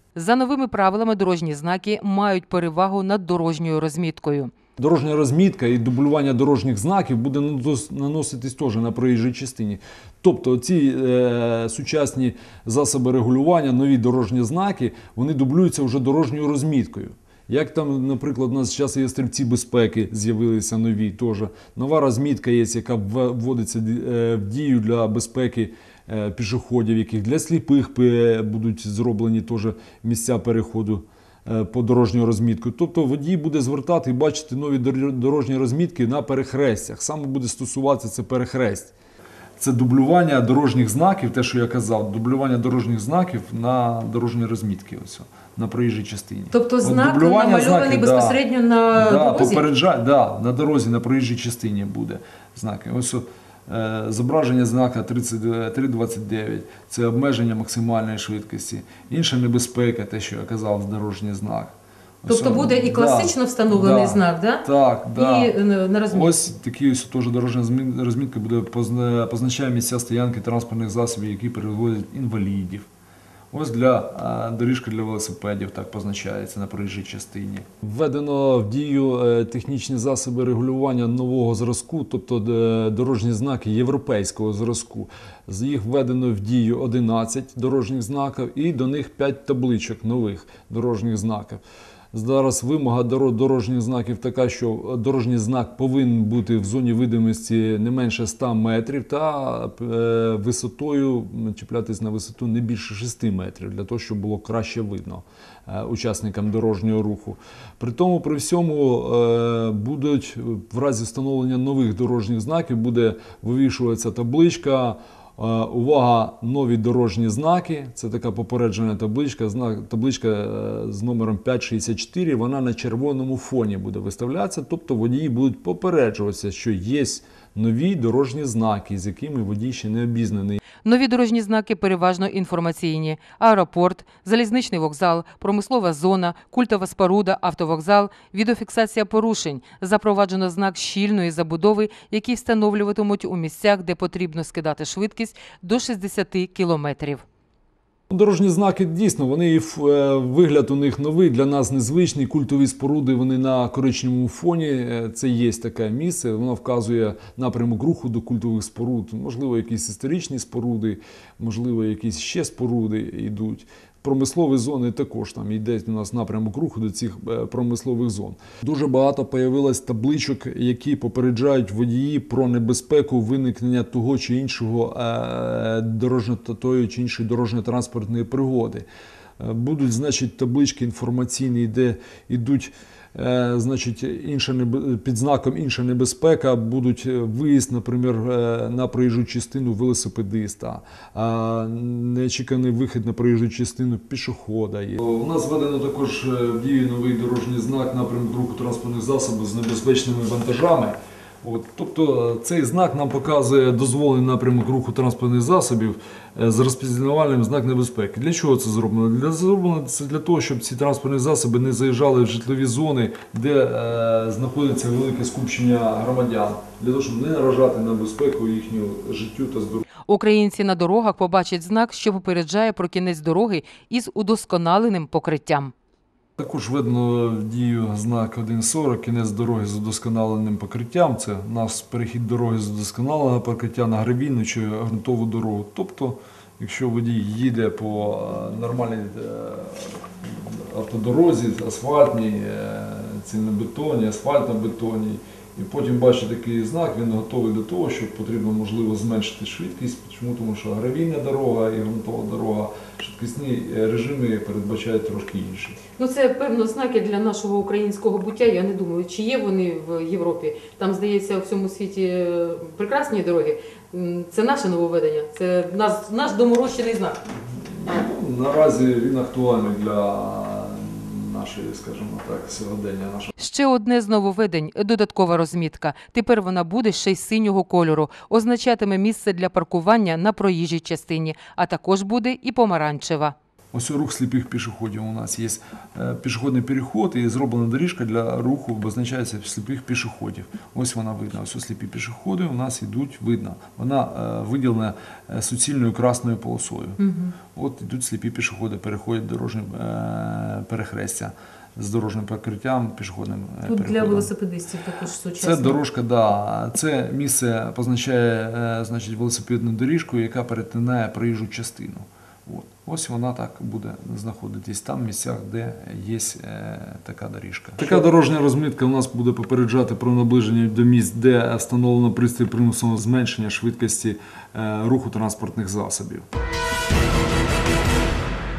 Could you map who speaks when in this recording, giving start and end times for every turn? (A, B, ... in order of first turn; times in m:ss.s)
0:00.1-0:04.5 A
0:04.8-0:38.9 B
0:39.6-0:48.4 B
0:46.5-0:49.6 A
0:48.9-1:05.5 B
1:02.3-1:06.3 A
1:06.1-1:12.9 B
1:13.5-1:31.6 B
1:32.1-2:10.6 B
2:10.8-2:27.2 A
2:28.1-2:58.8 B
2:59.4-3:39.8 B
3:40.1-3:45.7 A
3:46.4-4:15.8 B
4:16.0-4:27.2 A
4:27.7-4:33.3 B
4:33.4-4:43.3 A
4:43.7-4:57.0 B
4:57.0-4:57.3 A
4:57.5-5:04.3 B
5:03.6-5:05.8 A
5:05.4-5:26.2 B